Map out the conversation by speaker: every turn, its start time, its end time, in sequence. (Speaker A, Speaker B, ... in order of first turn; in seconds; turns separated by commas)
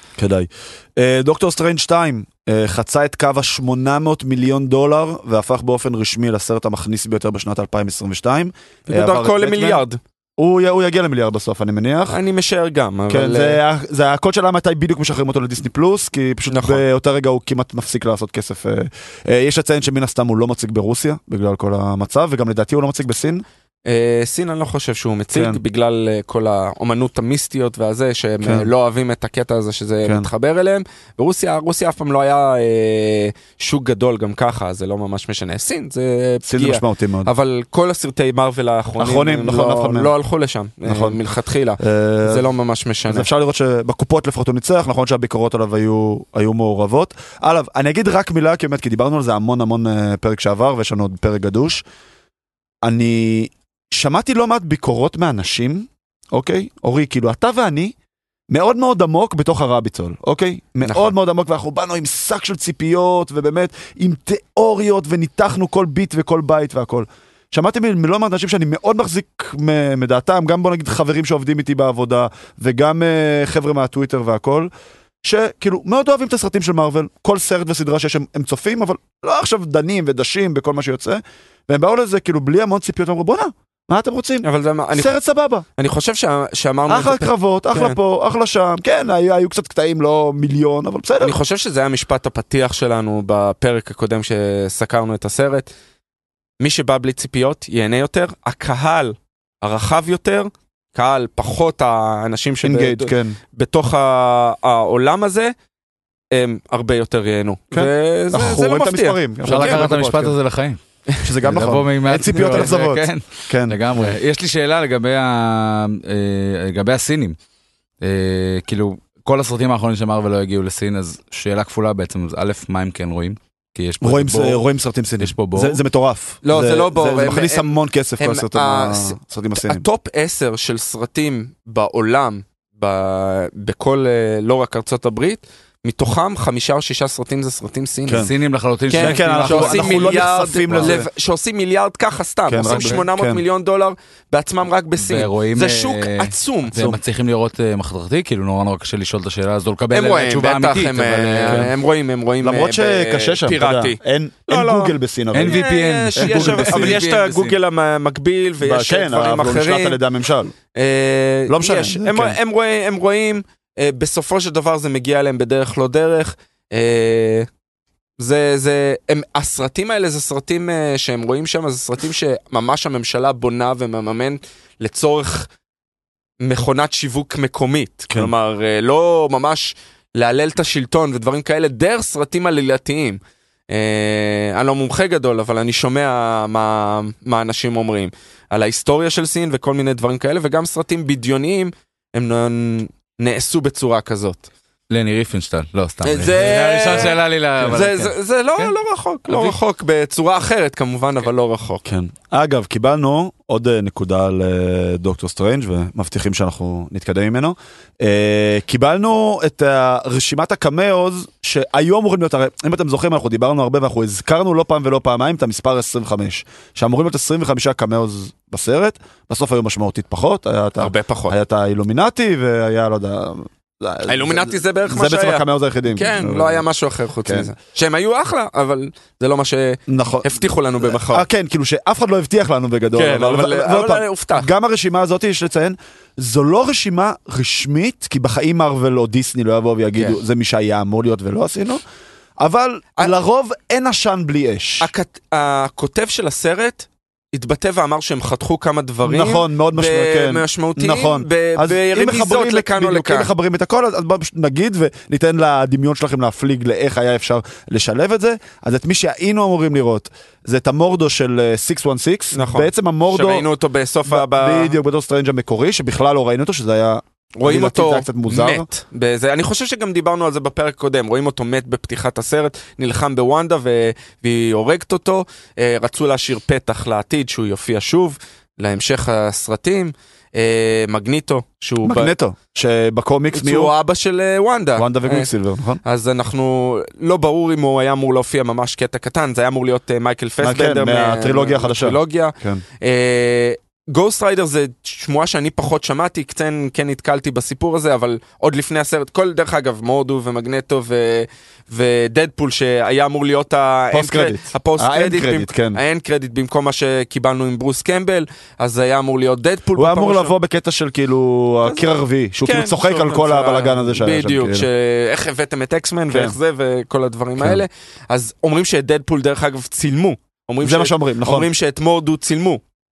Speaker A: 0.2-9.8, Speaker B: 8.9-10.0, Speaker A: 10.4-12.2, Speaker B: 12.1-13.6, Speaker A: 13.1-23.4, Speaker B: 16.5-16.8, Speaker B: 23.9-43.3, Speaker A: 25.3-25.6, Speaker A: 28.4-28.7, Speaker A: 36.4-37.3, Speaker A: 39.0-40.1, Speaker A: 40.9-41.2, Speaker A: 41.8-42.4, Speaker A: 43.1-51.8, Speaker A: 52.8-57.9, Speaker A: 58.5-74.7, Speaker B: 60.8-61.1, Speaker A: 75.2-85.7, Speaker B: 84.4-85.1, Speaker B: 85.8-88.0, Speaker A: 86.9-91.4, Speaker B: 91.2-95.7, Speaker B: 96.6-105.5, Speaker A: 102.6-103.4, Speaker B: 106.3-109.8, Speaker A: 107.7-110.4, Speaker C: 109.4-110.8, Speaker A: 111.2-113.8, Speaker C: 111.4-117.4, Speaker C: 118.0-124.6, Speaker A: 124.0-129.8, Speaker C: 125.2-125.8, Speaker B: 126.4-138.3, Speaker A: 138.1-138.3, Speaker C: 138.1-141.0, Speaker B: 138.9-146.9, Speaker A: 138.9-141.1, Speaker A: 142.5-143.4, Speaker C: 142.6-143.0, Speaker C: 145.0-151.7, Speaker B: 149.9-160.0, Speaker A: 151.5-151.7, Speaker A: 152.4-155.6, Speaker C: 155.3-157.6, Speaker A: 156.2-157.0, Speaker A: 158.6-160.5, Speaker B: 160.7-167.5, Speaker A: 161.5-162.3, Speaker B: 168.2-175.5, Speaker B: 176.4-194.5, Speaker C: 194.9-198.7, Speaker B: 196.0-201.8, Speaker C: 199.3-199.6, Speaker A: 201.8-226.6, Speaker B: 220.8-221.3, Speaker B: 224.1-231.2, Speaker A: 227.2-227.5, Speaker A: 229.9-241.8, Speaker B: 232.9-234.5, Speaker A: 242.4-244.9, Speaker B: 244.8-253.3, Speaker A: 249.0-263.4, Speaker B: 262.3-264.8, Speaker A: 264.1-268.7, Speaker B: 267.4-282.1, Speaker A: 281.8-283.7, Speaker B: 283.3-285.3, Speaker A: 284.8-285.8, Speaker B: 285.8-310.3, Speaker A: 290.4-292.6, Speaker A: 303.9-305.8, Speaker A: 309.8-314.7, Speaker B: 312.4-322.6, Speaker A: 316.1-316.4, Speaker A: 317.4-317.6, Speaker A: 320.6-321.5